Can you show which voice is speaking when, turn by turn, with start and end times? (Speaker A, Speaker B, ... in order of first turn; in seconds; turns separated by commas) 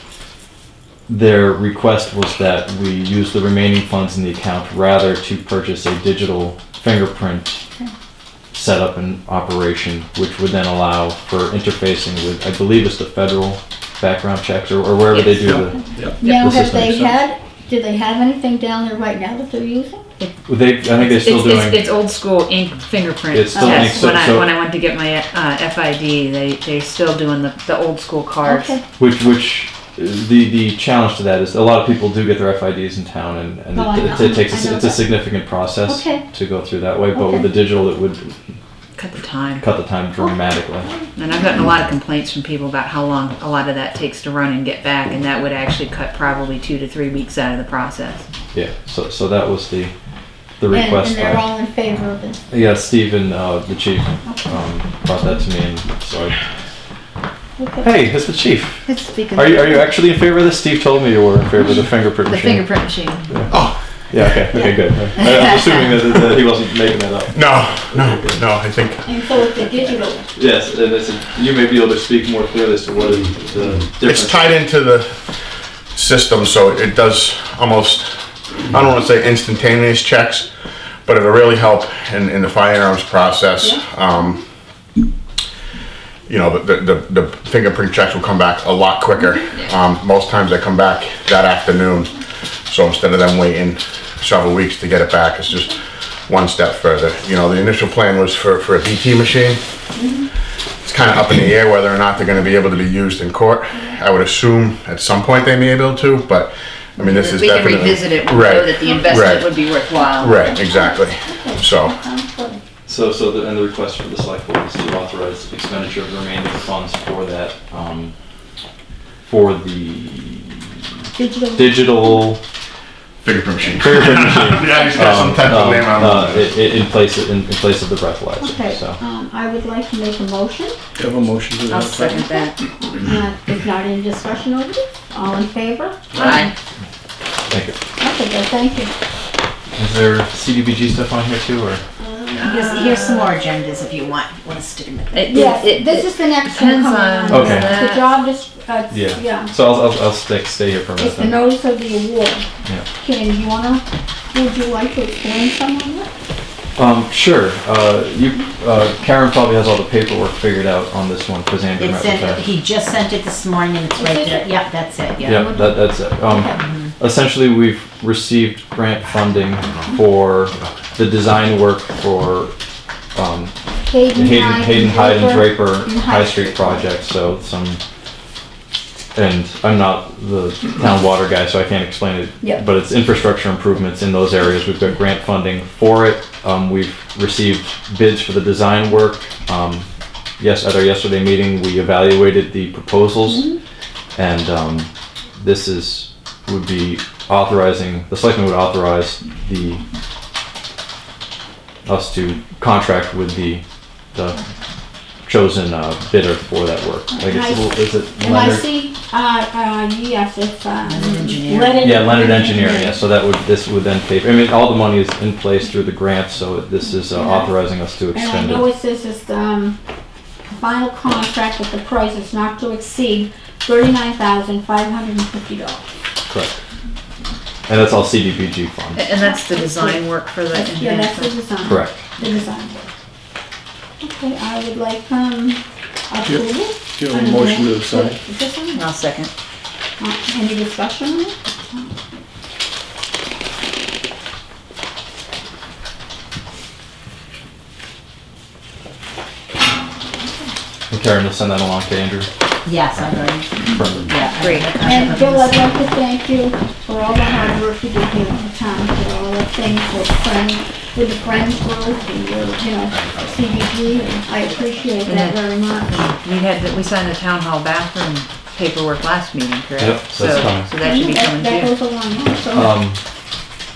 Speaker A: 1.1-7.6, Speaker A: 8.5-17.2, Speaker B: 15.1-16.6, Speaker C: 15.5-16.1, Speaker D: 16.2-20.1, Speaker A: 20.5-21.9, Speaker B: 20.9-28.8, Speaker A: 23.3-24.5, Speaker D: 23.6-23.9, Speaker D: 28.4-28.8, Speaker A: 29.0-38.5, Speaker D: 33.7-35.2, Speaker D: 35.9-36.2, Speaker D: 37.1-37.5, Speaker B: 39.0-39.6, Speaker A: 39.6-40.9, Speaker D: 40.2-41.3, Speaker B: 41.1-48.3, Speaker A: 48.5-49.9, Speaker A: 50.6-51.4, Speaker D: 50.7-52.4, Speaker A: 52.5-56.4, Speaker D: 54.2-54.6, Speaker D: 57.6-57.9, Speaker A: 57.8-58.8, Speaker B: 58.8-59.8, Speaker A: 59.3-62.6, Speaker B: 62.2-63.3, Speaker A: 63.3-63.6, Speaker E: 63.5-63.8, Speaker A: 64.1-68.4, Speaker E: 67.3-69.0, Speaker D: 69.0-70.2, Speaker A: 70.3-74.6, Speaker E: 74.0-75.2, Speaker E: 75.9-78.1, Speaker E: 78.7-80.5, Speaker E: 81.0-84.4, Speaker E: 86.3-92.1, Speaker E: 92.7-95.7, Speaker E: 96.3-99.6, Speaker D: 100.0-100.2, Speaker E: 100.8-109.5, Speaker B: 107.1-110.4, Speaker D: 110.0-112.6, Speaker E: 110.2-112.0, Speaker A: 112.9-118.1, Speaker A: 119.2-120.7, Speaker D: 121.2-122.2, Speaker A: 121.5-122.4, Speaker E: 123.2-126.5, Speaker A: 123.7-129.0, Speaker D: 128.4-130.8, Speaker C: 131.0-132.4, Speaker B: 131.7-132.6, Speaker D: 132.8-136.5, Speaker C: 136.1-136.4, Speaker B: 136.1-136.5, Speaker A: 137.5-137.8, Speaker D: 138.0-138.9, Speaker A: 139.7-141.8, Speaker D: 142.0-142.9, Speaker B: 142.3-143.3, Speaker F: 142.5-145.3, Speaker B: 145.1-148.1, Speaker D: 145.2-149.5, Speaker A: 147.3-147.8, Speaker A: 148.9-151.4, Speaker D: 151.0-152.4, Speaker D: 153.0-156.1, Speaker A: 156.8-162.4, Speaker F: 161.8-165.4, Speaker D: 163.9-164.5, Speaker A: 165.2-172.5, Speaker D: 165.3-166.7, Speaker A: 173.1-173.5, Speaker D: 173.8-176.9, Speaker A: 174.1-177.8, Speaker A: 179.1-189.9, Speaker A: 190.4-193.5, Speaker D: 193.3-193.6, Speaker A: 194.1-199.8, Speaker A: 201.8-203.6, Speaker A: 204.1-204.4, Speaker A: 205.2-208.7, Speaker D: 207.1-213.0, Speaker F: 210.8-212.0, Speaker A: 211.8-218.7, Speaker D: 217.1-217.5, Speaker D: 218.1-219.8, Speaker D: 220.5-225.9, Speaker A: 226.3-226.6, Speaker A: 227.7-229.0, Speaker B: 228.9-231.3, Speaker D: 229.1-232.9, Speaker A: 231.6-232.0, Speaker D: 234.0-238.8, Speaker C: 236.2-238.2, Speaker B: 238.7-239.3, Speaker D: 240.0-241.9, Speaker A: 250.9-252.3, Speaker F: 252.6-255.9, Speaker A: 252.9-254.1, Speaker B: 254.3-254.8, Speaker D: 254.7-266.0, Speaker F: 263.9-264.9, Speaker B: 265.0-271.7, Speaker A: 269.8-270.7, Speaker D: 270.8-272.8, Speaker A: 272.5-273.0